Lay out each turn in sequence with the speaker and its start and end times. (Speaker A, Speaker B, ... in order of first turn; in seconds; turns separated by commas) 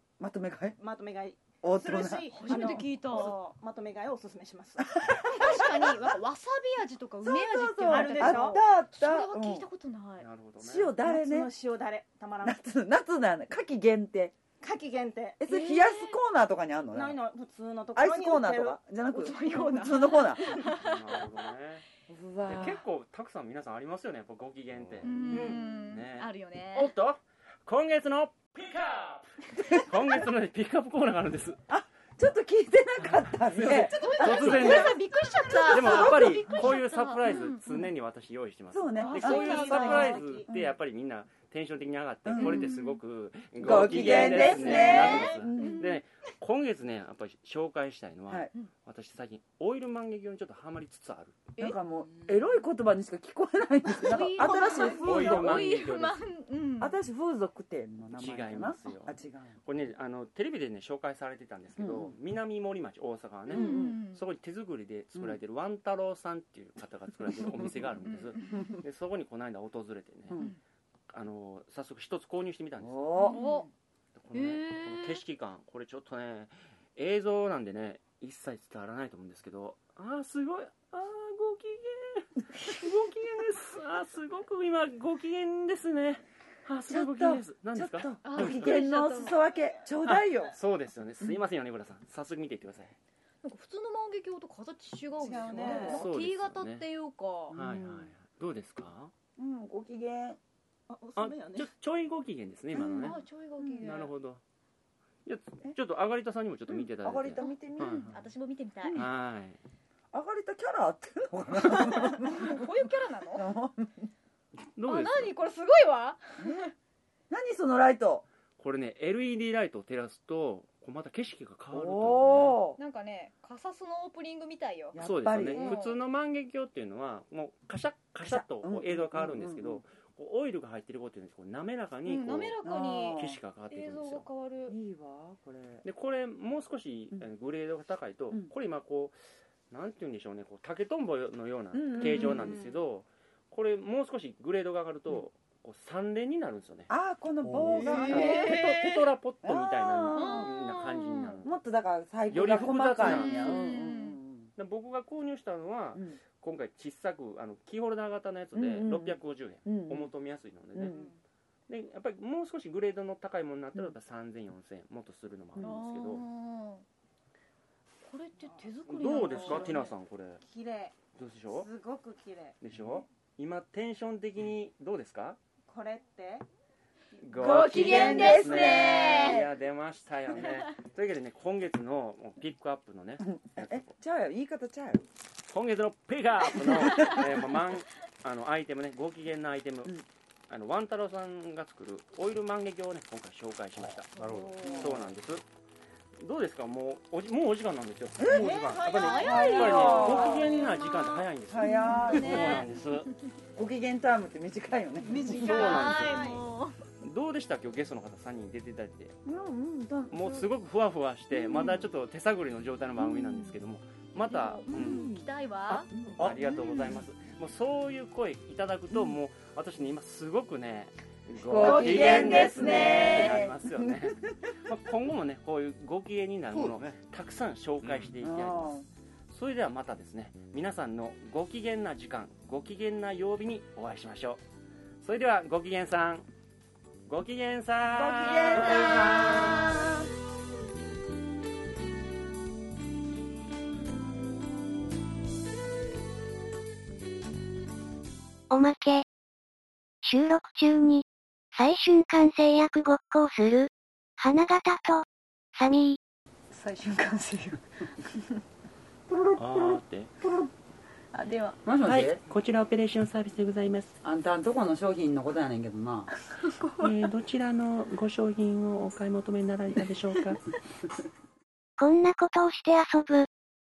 Speaker A: 0.2-0.8, Speaker B: 0.8-6.0, Speaker A: 1.6-2.8, Speaker C: 2.3-3.4, Speaker A: 5.1-6.1, Speaker C: 5.3-10.3, Speaker A: 7.2-9.7, Speaker B: 7.8-8.8, Speaker D: 10.2-11.0, Speaker A: 10.6-11.5, Speaker B: 11.0-12.6, Speaker A: 12.4-14.3, Speaker B: 14.6-15.4, Speaker A: 15.4-17.2, Speaker C: 15.4-16.2, Speaker B: 16.9-18.8, Speaker A: 17.9-20.5, Speaker C: 19.1-20.9, Speaker D: 20.6-21.8, Speaker A: 22.1-22.8, Speaker D: 22.4-31.6, Speaker E: 24.8-25.1, Speaker C: 25.0-26.9, Speaker B: 25.3-25.6, Speaker A: 29.6-30.2, Speaker A: 31.7-36.4, Speaker D: 33.0-35.0, Speaker B: 33.7-34.4, Speaker C: 33.9-37.6, Speaker D: 35.6-51.4, Speaker A: 38.7-40.8, Speaker B: 39.0-40.5, Speaker A: 42.2-42.7, Speaker C: 42.4-42.9, Speaker A: 43.5-45.9, Speaker B: 44.0-45.2, Speaker C: 44.1-46.0, Speaker A: 51.6-55.6, Speaker C: 54.0-57.0, Speaker B: 54.4-55.2, Speaker D: 54.8-56.2, Speaker A: 56.8-59.6, Speaker D: 58.1-70.4, Speaker A: 61.8-62.2, Speaker A: 63.5-64.0, Speaker C: 63.5-64.2, Speaker C: 68.3-68.6, Speaker D: 71.1-73.3, Speaker A: 72.8-73.7, Speaker C: 73.2-73.7, Speaker D: 74.1-88.8, Speaker C: 74.3-75.2, Speaker A: 86.9-90.5, Speaker C: 88.2-89.4, Speaker B: 89.5-89.8, Speaker D: 90.0-93.0, Speaker C: 93.4-97.6, Speaker B: 95.2-96.0, Speaker A: 95.5-96.1, Speaker D: 95.7-96.8, Speaker A: 97.5-98.1, Speaker D: 97.5-99.1, Speaker A: 99.4-100.4, Speaker B: 100.9-101.7, Speaker D: 101.2-103.2, Speaker A: 102.7-104.0, Speaker C: 103.0-104.1, Speaker D: 103.8-104.4, Speaker D: 105.2-108.2, Speaker A: 106.7-108.1, Speaker C: 107.4-109.1, Speaker A: 108.8-109.1, Speaker D: 108.9-109.6, Speaker A: 110.1-112.6, Speaker C: 111.7-113.5, Speaker A: 113.3-114.1, Speaker D: 114.8-115.3, Speaker C: 114.8-116.7, Speaker A: 116.4-116.7, Speaker A: 117.3-118.2, Speaker D: 118.6-122.6, Speaker A: 121.7-122.8, Speaker C: 122.8-126.0, Speaker A: 124.9-125.8, Speaker D: 125.0-132.6, Speaker A: 128.2-129.8, Speaker C: 132.1-133.2, Speaker A: 132.6-133.4, Speaker D: 133.2-134.3, Speaker C: 133.7-134.8, Speaker A: 134.7-135.8, Speaker D: 135.8-139.2, Speaker D: 139.7-146.9, Speaker A: 141.7-142.6, Speaker B: 142.0-142.7, Speaker A: 146.9-148.9, Speaker E: 147.4-148.3, Speaker C: 147.9-149.0, Speaker D: 148.1-151.5, Speaker A: 149.4-150.5, Speaker C: 150.1-151.4, Speaker A: 151.4-154.5, Speaker D: 152.3-153.6, Speaker C: 153.0-154.2, Speaker D: 154.6-161.1, Speaker A: 155.9-156.2, Speaker A: 158.5-160.1, Speaker A: 160.7-161.0, Speaker B: 160.8-161.2, Speaker D: 161.7-166.2, Speaker A: 165.5-165.8, Speaker C: 165.6-166.8, Speaker C: 168.0-169.8, Speaker B: 168.4-171.0, Speaker D: 168.8-170.4, Speaker D: 171.2-171.7, Speaker B: 171.5-172.6, Speaker D: 172.6-175.4, Speaker B: 175.7-176.4, Speaker D: 177.2-183.9, Speaker A: 177.3-179.5, Speaker C: 177.4-179.4, Speaker A: 183.2-185.0, Speaker D: 185.5-194.1, Speaker A: 186.5-187.2, Speaker E: 193.8-195.1, Speaker B: 194.3-194.8, Speaker A: 194.6-195.1, Speaker D: 194.7-195.4, Speaker D: 196.2-203.1, Speaker A: 198.2-198.5, Speaker E: 198.3-198.9, Speaker B: 198.3-201.3, Speaker C: 198.9-200.3, Speaker A: 199.2-200.5, Speaker A: 201.5-202.7, Speaker C: 201.6-202.9, Speaker A: 203.5-205.9, Speaker B: 205.0-206.4, Speaker C: 205.3-206.8, Speaker D: 205.3-206.4, Speaker D: 207.0-209.1, Speaker A: 209.2-210.5, Speaker D: 210.1-215.1, Speaker A: 211.3-211.8, Speaker A: 213.0-213.6, Speaker C: 214.3-215.9, Speaker A: 214.7-217.0, Speaker D: 216.2-234.4, Speaker A: 218.9-219.2, Speaker A: 221.4-224.1, Speaker C: 221.6-223.4, Speaker E: 226.5-227.0, Speaker A: 228.1-228.8, Speaker D: 235.0-236.2, Speaker D: 237.1-239.8, Speaker A: 237.8-240.0, Speaker F: 248.5-249.0, Speaker F: 250.0-251.0, Speaker F: 251.5-256.0, Speaker A: 256.5-257.6, Speaker A: 259.1-260.5, Speaker D: 259.4-260.1, Speaker A: 261.1-262.2, Speaker D: 261.8-264.0, Speaker A: 264.0-266.6, Speaker D: 266.8-270.4, Speaker F: 271.8-273.3